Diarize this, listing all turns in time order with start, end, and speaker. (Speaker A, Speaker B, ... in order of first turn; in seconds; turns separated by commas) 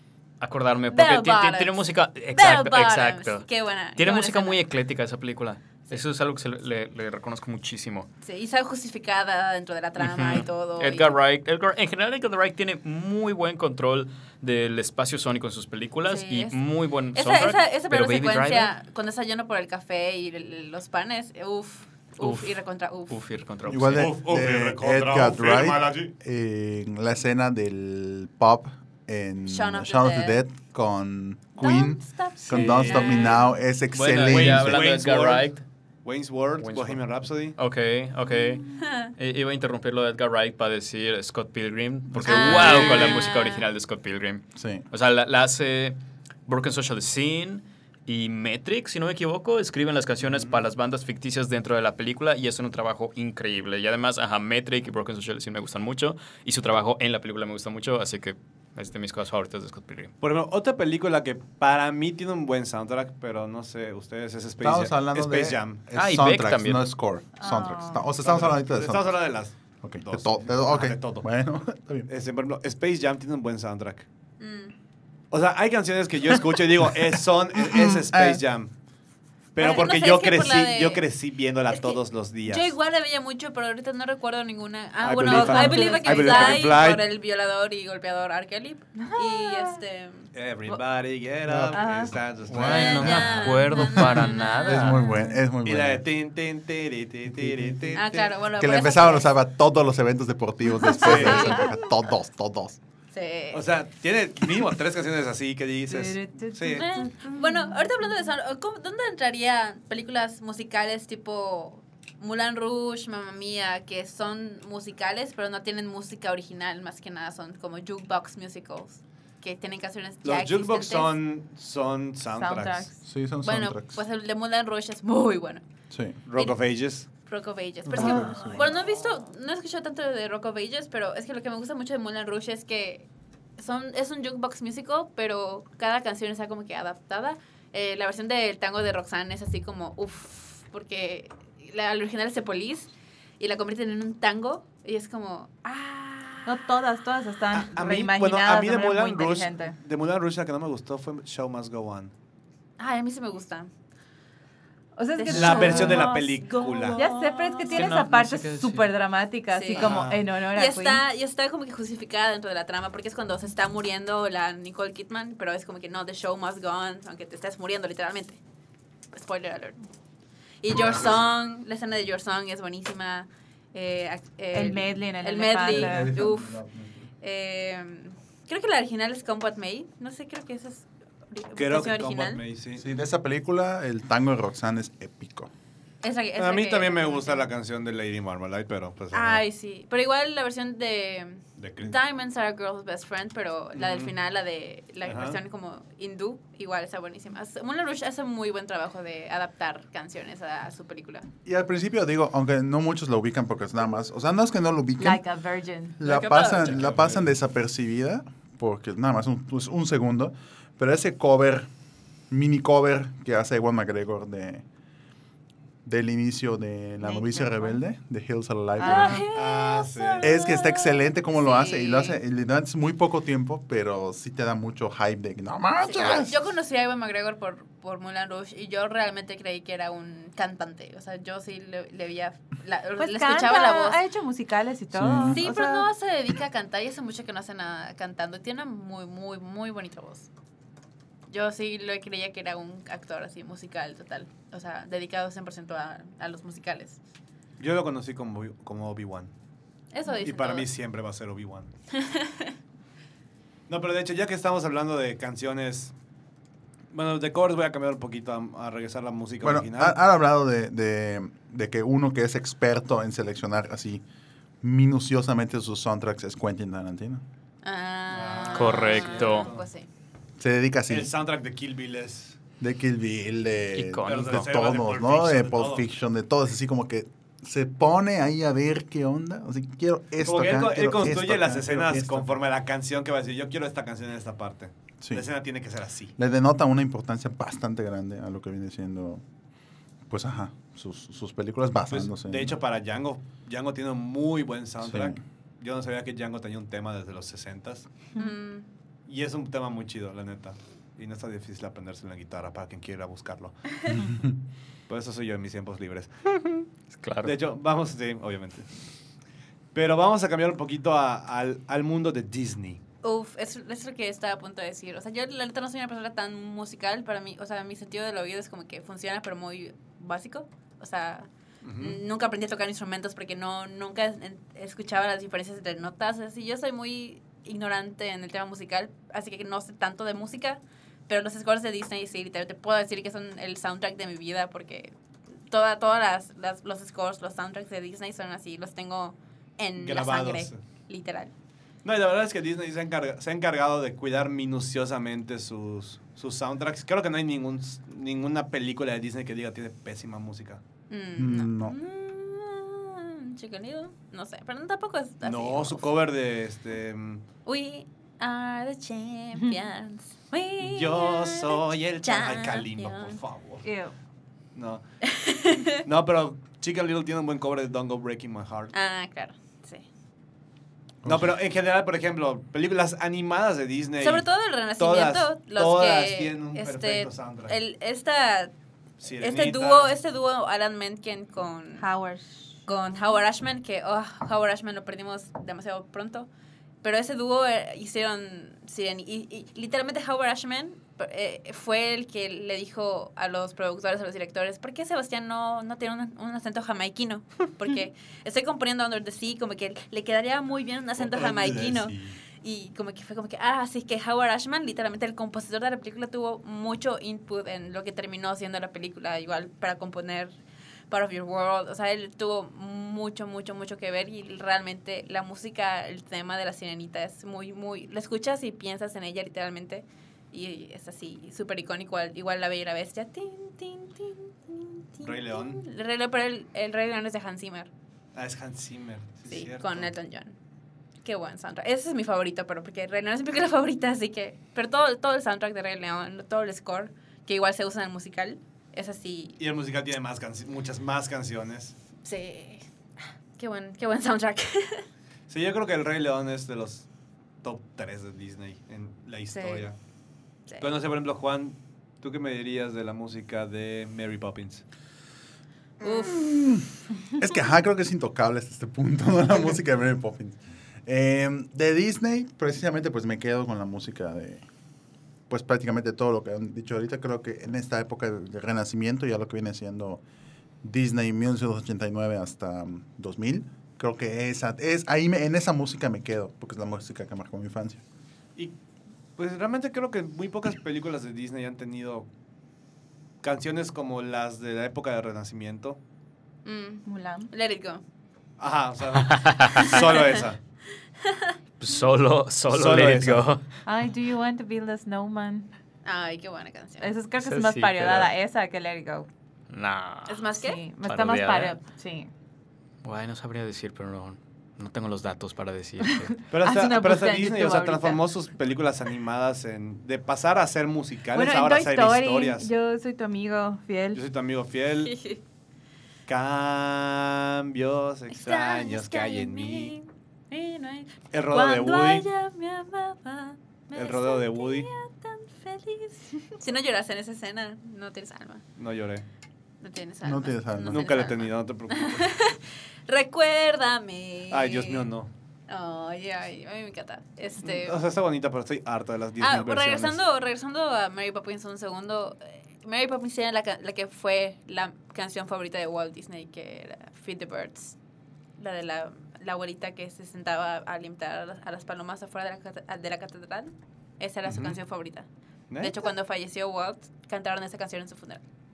Speaker A: 0.4-8.1, Speaker B: 0.9-4.6, Speaker B: 8.2-11.1, Speaker A: 10.0-18.7, Speaker B: 16.1-16.5, Speaker B: 17.1-23.2, Speaker A: 22.2-24.1, Speaker C: 23.7-34.9, Speaker D: 23.9-26.1, Speaker B: 29.5-30.4, Speaker B: 31.6-33.4, Speaker A: 32.4-33.4, Speaker D: 32.5-33.0, Speaker A: 33.9-35.6, Speaker D: 34.3-35.5, Speaker D: 36.0-37.5, Speaker A: 36.6-60.1, Speaker B: 38.6-39.0, Speaker C: 42.1-43.0, Speaker B: 42.3-43.6, Speaker D: 42.6-43.2, Speaker C: 44.5-44.8, Speaker D: 50.2-50.6, Speaker D: 60.2-65.8, Speaker C: 64.6-72.1, Speaker A: 65.9-66.8, Speaker E: 67.4-68.1, Speaker D: 68.2-71.3, Speaker D: 72.0-74.0, Speaker B: 74.4-74.7, Speaker D: 75.3-78.7, Speaker C: 77.6-78.4, Speaker D: 79.5-82.7, Speaker B: 79.6-81.0, Speaker B: 81.7-90.3, Speaker D: 85.0-87.0, Speaker E: 85.2-86.6, Speaker E: 89.0-89.8, Speaker D: 90.3-93.6, Speaker C: 91.4-93.2, Speaker E: 91.7-92.1, Speaker A: 92.5-95.0, Speaker B: 92.6-94.9, Speaker C: 94.7-96.0, Speaker E: 95.0-95.4, Speaker D: 95.6-98.4, Speaker C: 97.3-98.0, Speaker B: 98.0-99.3, Speaker C: 98.5-102.8, Speaker D: 101.0-101.6, Speaker B: 101.2-101.7, Speaker B: 103.1-103.6, Speaker D: 103.5-106.9, Speaker E: 105.9-108.0, Speaker B: 106.7-121.2, Speaker D: 120.2-122.9, Speaker E: 122.4-122.9, Speaker C: 123.0-124.0, Speaker B: 123.4-125.7, Speaker C: 125.9-126.2, Speaker D: 126.2-127.1, Speaker B: 126.3-146.6, Speaker C: 127.9-128.6, Speaker E: 128.0-128.5, Speaker E: 146.4-149.8, Speaker D: 147.5-152.1, Speaker B: 152.8-153.7, Speaker E: 155.0-156.4, Speaker B: 155.2-157.9, Speaker D: 155.3-157.0, Speaker E: 156.9-161.0, Speaker A: 157.7-158.9, Speaker B: 159.5-168.4, Speaker D: 159.7-160.2, Speaker B: 169.1-169.8, Speaker B: 170.6-176.6, Speaker E: 174.5-176.1, Speaker C: 175.7-177.0, Speaker B: 177.2-182.4, Speaker D: 181.5-182.8, Speaker C: 182.8-185.5, Speaker B: 186.0-187.5, Speaker D: 186.3-189.4, Speaker B: 189.1-201.3, Speaker D: 191.6-192.0, Speaker D: 193.7-194.1, Speaker D: 195.0-195.4, Speaker C: 201.4-205.2, Speaker E: 205.0-206.0, Speaker C: 206.0-211.7, Speaker B: 206.0-206.9, Speaker D: 206.6-207.3, Speaker C: 212.3-214.6, Speaker C: 215.8-219.3, Speaker E: 217.0-217.8, Speaker E: 218.8-219.2, Speaker B: 218.8-222.2, Speaker D: 218.9-220.3, Speaker C: 220.2-226.3, Speaker B: 225.8-234.0, Speaker E: 233.0-235.9, Speaker C: 234.9-235.4, Speaker B: 235.3-240.3, Speaker B: 241.3-247.0, Speaker D: 247.6-249.3, Speaker B: 249.9-250.7, Speaker D: 250.1-251.7, Speaker B: 251.9-252.6, Speaker D: 253.7-255.9, Speaker D: 256.9-260.0, Speaker C: 259.4-264.0, Speaker C: 264.6-267.2, Speaker B: 267.6-269.9, Speaker D: 268.1-269.7, Speaker A: 268.5-269.5, Speaker C: 270.4-271.1, Speaker D: 270.9-272.4, Speaker C: 272.6-282.3, Speaker A: 273.7-274.5, Speaker D: 274.0-275.9, Speaker D: 280.2-286.1, Speaker C: 285.0-285.3, Speaker C: 286.2-289.2, Speaker C: 290.1-292.5, Speaker D: 291.9-297.9, Speaker C: 294.8-295.2, Speaker B: 298.1-298.7, Speaker D: 299.1-303.6, Speaker C: 304.0-304.3, Speaker D: 304.9-306.1, Speaker A: 306.4-307.3, Speaker D: 307.2-308.7, Speaker D: 309.7-312.8, Speaker B: 313.0-334.9, Speaker D: 321.6-322.0, Speaker B: 335.5-341.3, Speaker D: 339.8-340.6, Speaker D: 341.8-350.6, Speaker B: 350.9-355.9, Speaker C: 351.2-351.7, Speaker D: 355.2-357.2, Speaker B: 357.4-363.2, Speaker D: 360.6-363.6, Speaker E: 363.6-363.9, Speaker D: 364.5-364.8, Speaker B: 365.3-365.6, Speaker D: 365.8-368.7, Speaker B: 368.7-369.9, Speaker C: 371.0-371.3, Speaker D: 371.0-377.6, Speaker B: 374.0-378.5, Speaker D: 379.0-379.9, Speaker B: 379.2-381.8, Speaker E: 381.8-382.6, Speaker B: 382.6-386.3, Speaker B: 386.8-427.7, Speaker D: 400.9-402.2, Speaker D: 425.0-425.6, Speaker D: 428.1-429.9, Speaker B: 429.3-430.3, Speaker B: 431.0-439.4, Speaker D: 439.4-441.8, Speaker B: 442.0-442.6, Speaker B: 443.4-444.8, Speaker D: 445.3-446.9, Speaker D: 447.4-449.8, Speaker B: 449.3-449.7, Speaker D: 450.6-454.6, Speaker B: 455.8-456.2, Speaker C: 456.1-464.4, Speaker C: 465.3-470.0, Speaker C: 470.6-477.8, Speaker D: 479.1-482.1, Speaker D: 483.2-485.8, Speaker B: 486.4-487.8, Speaker E: 486.8-487.3, Speaker D: 488.4-490.4, Speaker A: 489.0-489.8, Speaker B: 489.7-490.0, Speaker B: 491.0-491.3, Speaker A: 491.6-493.4, Speaker D: 492.5-493.3, Speaker E: 493.6-495.5, Speaker B: 495.8-496.9, Speaker E: 496.8-499.1, Speaker A: 497.2-498.1, Speaker A: 499.5-500.2, Speaker B: 500.1-500.6, Speaker E: 500.4-502.1, Speaker A: 500.8-501.6, Speaker A: 502.8-506.1, Speaker E: 506.3-508.0, Speaker D: 506.3-512.5, Speaker E: 511.1-514.0, Speaker D: 513.9-515.0, Speaker B: 514.8-515.2, Speaker D: 516.1-519.8, Speaker B: 518.1-528.4, Speaker D: 521.1-522.1, Speaker D: 523.7-524.7, Speaker D: 528.5-529.0, Speaker B: 529.6-534.9, Speaker C: 530.0-530.9, Speaker D: 530.7-532.1, Speaker D: 534.3-535.1, Speaker B: 535.5-537.8, Speaker D: 537.4-540.0, Speaker B: 539.2-547.8, Speaker B: 548.4-555.1, Speaker D: 554.2-554.6, Speaker D: 555.5-555.9, Speaker B: 555.6-558.2